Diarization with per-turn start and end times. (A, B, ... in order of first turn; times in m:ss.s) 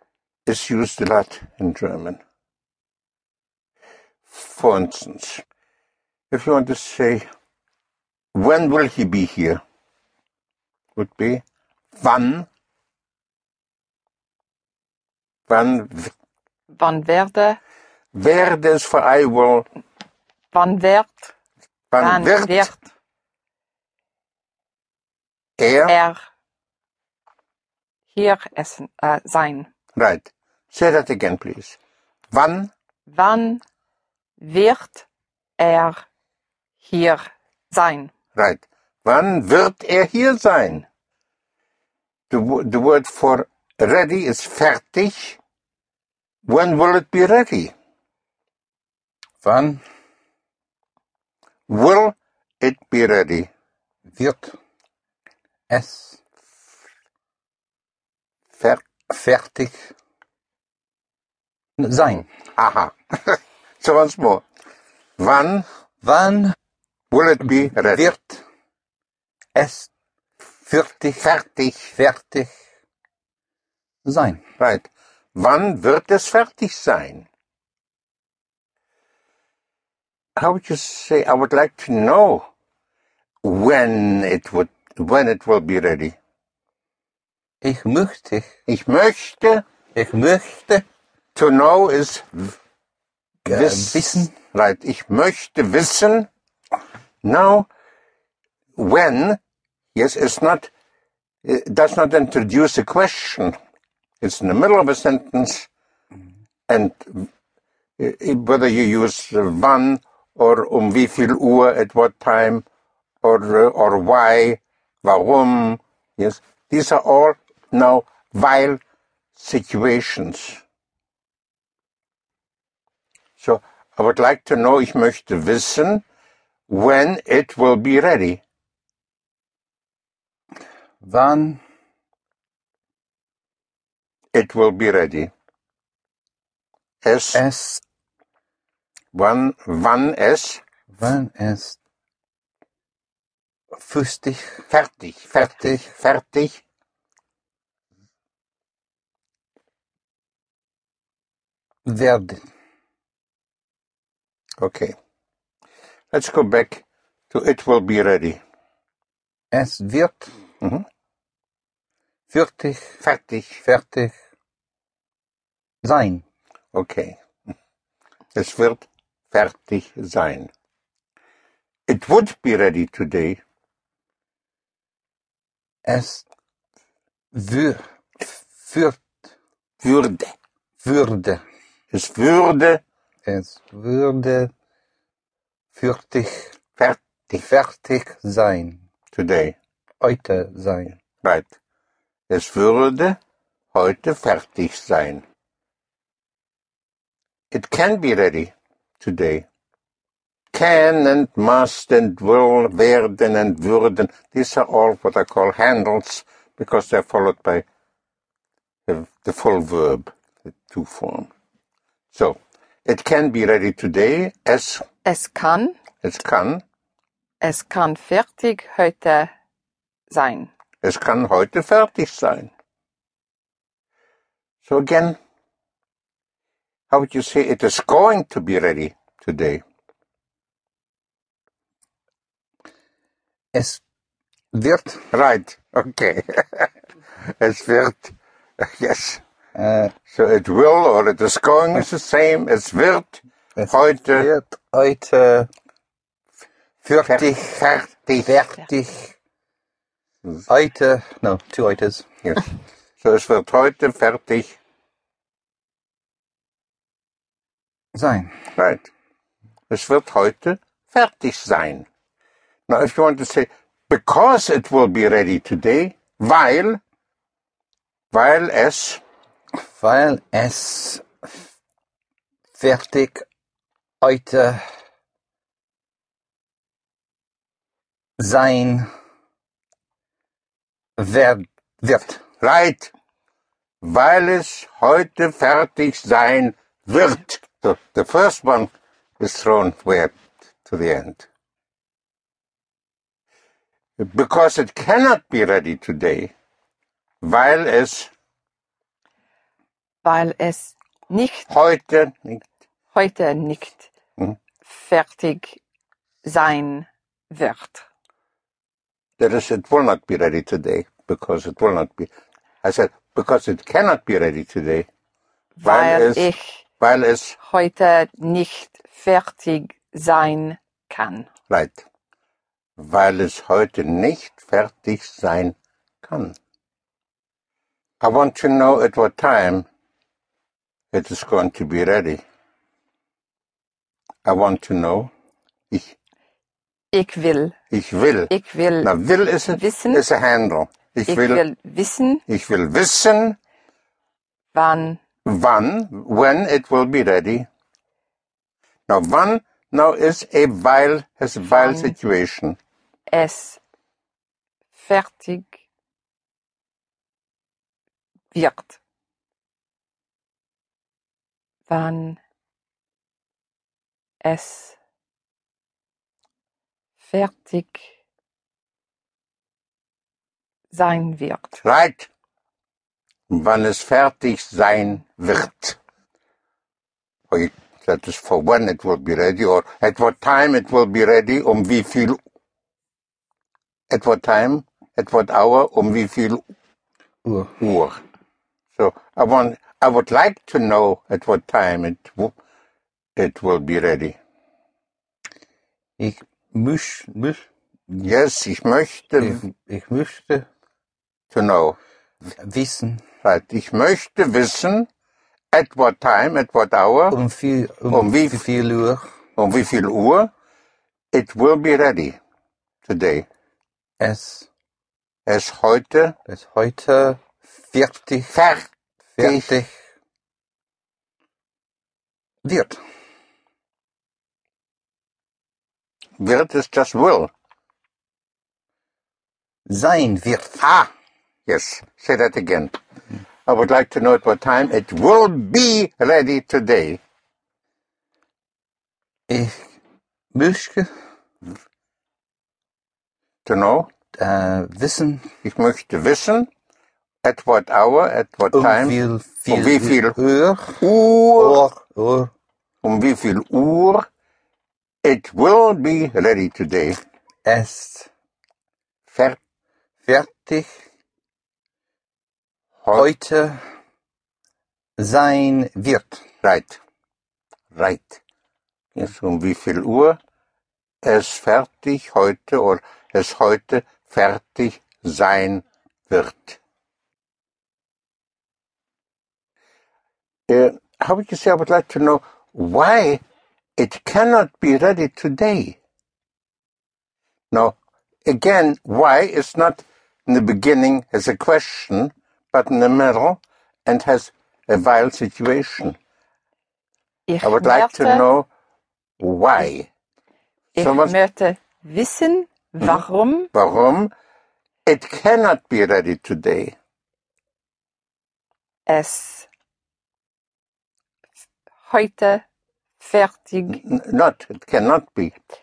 0:00.4-0:02.2 A
0:04.2-0:05.4 A
0:06.3-0:07.2 A
0:08.3-0:09.6 A
0:11.0-0:11.4 A
0:11.9-0:12.5 A
0:15.5-0:16.1 A
0:16.7-0:17.6 B
0:18.1-0:19.7 A
0:20.5-0:21.3 B
0:21.9-0:22.7 A
0:22.0-0:22.8 B
0:25.6-0:26.0 A
0:25.9-0:26.2 B
0:28.1-0:29.7 B
0:30.0-0:31.8 A
0:32.3-0:32.7 A
0:33.1-0:33.6 B
0:34.4-0:35.0 B
0:35.6-0:36.0 B
0:36.8-0:38.1 B
0:38.3-0:40.8 A
0:42.3-0:45.4 A
0:46.4-0:47.7 A
0:49.4-0:49.8 C
0:51.7-0:53.5 A
0:54.1-0:54.6 C
0:55.7-0:56.2 C
0:58.5-0:58.8 A
0:59.1-0:59.9 C
1:01.8-1:02.3 C
1:02.6-1:04.4 A
1:05.2-1:05.6 A
1:06.0-1:06.5 C
1:07.1-1:08.1 A
1:07.6-1:08.4 C
1:09.5-1:09.9 C
1:10.6-1:11.2 C
1:11.2-1:12.0 A
1:11.9-1:12.5 C
1:14.0-1:14.4 C
1:14.6-1:17.3 A
1:20.4-1:22.5 A
1:23.4-1:26.2 A
1:27.6-1:28.5 C
1:28.7-1:29.6 A
1:29.9-1:30.8 C
1:31.3-1:32.6 A
1:33.4-1:34.3 C
1:33.5-1:36.3 A
1:37.2-1:37.7 A
1:38.8-1:39.4 A
1:39.9-1:40.7 A
1:41.4-1:43.6 A
1:44.2-1:45.7 A
1:46.7-1:47.3 A
1:48.0-1:52.6 A
1:53.2-1:58.8 A
1:59.4-2:00.6 A
2:03.4-2:06.0 A
2:06.7-2:08.4 A
2:11.0-2:11.6 C
2:14.3-2:15.3 A
2:17.0-2:17.4 A
2:17.3-2:17.8 C
2:19.1-2:20.6 A
2:20.9-2:21.8 C
2:23.7-2:24.6 C
2:24.7-2:26.6 A
2:25.4-2:25.8 C
2:31.8-2:32.4 C
2:34.6-2:34.9 A
2:36.1-2:38.4 A
2:39.5-2:40.4 C
2:42.3-2:43.0 C
2:43.0-2:43.6 A
2:43.6-2:44.1 C
2:45.8-2:46.2 C
2:46.7-2:47.2 A
2:48.3-2:50.5 A
2:51.9-2:53.4 A
2:55.8-2:56.2 C
2:57.3-2:59.2 C
2:59.8-3:00.3 A
3:00.8-3:01.4 C
3:01.9-3:02.8 A
3:03.2-3:04.5 C
3:05.7-3:06.5 C
3:06.8-3:07.4 A
3:07.4-3:08.8 C
3:09.1-3:09.6 A
3:10.0-3:11.0 C
3:11.2-3:11.5 A
3:12.3-3:13.2 A
3:13.7-3:15.2 A
3:17.5-3:19.5 A
3:20.5-3:27.6 A
3:28.9-3:31.3 A
3:32.1-3:34.8 A
3:35.0-3:35.8 B
3:36.0-3:36.6 A
3:37.4-3:39.3 B
3:40.1-3:40.5 B
3:40.8-3:42.5 A
3:44.6-3:45.2 A
3:46.9-3:49.6 A
3:53.5-3:53.8 C
3:54.5-3:55.0 C
3:55.1-3:56.7 A
3:57.2-3:59.2 A
3:59.5-3:59.9 C
4:00.1-4:04.3 A
4:03.6-4:05.5 C
4:06.8-4:07.5 C
4:07.0-4:08.5 A
4:08.2-4:09.1 C
4:10.5-4:12.0 C
4:12.2-4:14.6 A
4:17.9-4:18.3 C
4:18.6-4:18.9 A
4:19.7-4:21.9 A
4:22.7-4:26.8 A
4:28.1-4:29.0 A
4:29.6-4:31.0 C
4:32.6-4:33.2 C
4:34.0-4:34.6 C
4:38.2-4:38.9 C
4:41.0-4:42.2 C
4:42.4-4:42.9 A
4:43.8-4:51.3 A
4:54.0-4:56.3 A
4:57.2-4:58.1 A
5:00.0-5:01.5 B
5:01.5-5:02.4 A
5:02.9-5:03.9 B
5:04.6-5:05.6 B
5:06.2-5:07.8 B
5:09.2-5:12.1 A
5:12.6-5:14.9 A
5:15.6-5:16.6 B
5:15.6-5:17.4 A
5:17.4-5:21.3 B
5:21.5-5:21.8 A
5:22.8-5:26.4 A
5:28.0-5:29.6 A
5:30.9-5:32.2 A
5:34.2-5:35.1 A
5:35.7-5:36.0 A
5:36.9-5:37.5 B
5:37.7-5:41.4 A
5:38.3-5:38.9 B
5:39.5-5:40.0 B
5:41.1-5:42.2 B
5:42.3-5:43.4 A
5:44.5-5:45.0 B
5:45.2-5:47.5 A
5:48.9-5:52.6 A
5:51.4-5:51.9 B
5:53.1-5:53.6 B
5:54.7-5:55.6 B
5:58.3-5:58.8 B
6:01.7-6:02.2 B
6:04.2-6:04.8 B
6:07.0-6:07.9 B
6:10.7-6:11.6 B
6:11.6-6:12.1 A
6:13.3-6:15.8 A
6:17.3-6:22.2 A
6:23.9-6:26.4 A
6:27.2-6:27.5 C
6:27.6-6:28.0 A
6:28.7-6:32.3 A
6:33.2-6:34.2 A
6:36.0-6:38.1 C
6:38.0-6:39.4 A
6:39.2-6:40.4 C
6:41.3-6:41.8 A
6:42.4-6:43.0 C
6:43.2-6:44.9 A
6:45.5-6:47.2 A
6:47.1-6:49.1 C
6:47.9-6:48.4 A
6:49.4-6:50.3 A
6:51.1-6:52.2 A
6:52.8-6:53.3 A
6:54.0-6:54.5 C
6:55.2-6:56.2 A
6:56.3-6:58.3 C
6:58.3-6:59.6 A
6:59.2-6:59.7 C
7:02.4-7:02.8 C
7:06.2-7:07.3 A
7:09.7-7:10.6 C
7:10.6-7:10.9 A
7:11.5-7:12.7 A
7:13.5-7:17.0 A
7:19.3-7:19.7 C
7:20.3-7:20.9 C
7:23.4-7:23.9 A
7:24.1-7:25.2 C
7:25.4-7:26.5 A
7:27.2-7:30.2 A
7:28.5-7:30.8 C
7:30.8-7:31.6 A
7:31.4-7:32.3 C
7:32.8-7:34.1 A
7:35.0-7:37.0 A
7:37.4-7:38.1 C
7:39.1-7:39.4 A
7:40.0-7:40.8 C
7:42.8-7:43.1 A
7:43.0-7:43.6 C
7:45.0-7:46.2 C
7:46.4-7:46.8 A
7:47.7-7:48.2 A
7:48.9-7:50.2 A
7:51.0-7:56.6 A
8:00.5-8:03.2 A
8:03.8-8:05.8 A
8:07.5-8:16.0 A
8:17.3-8:18.2 B
8:17.4-8:18.5 A
8:19.2-8:19.9 A
8:20.8-8:23.5 B
8:20.8-8:21.2 A
8:23.5-8:24.1 A
8:24.9-8:26.7 A
8:28.9-8:29.5 B
8:31.8-8:32.4 B
8:33.0-8:33.8 B
8:33.7-8:35.4 A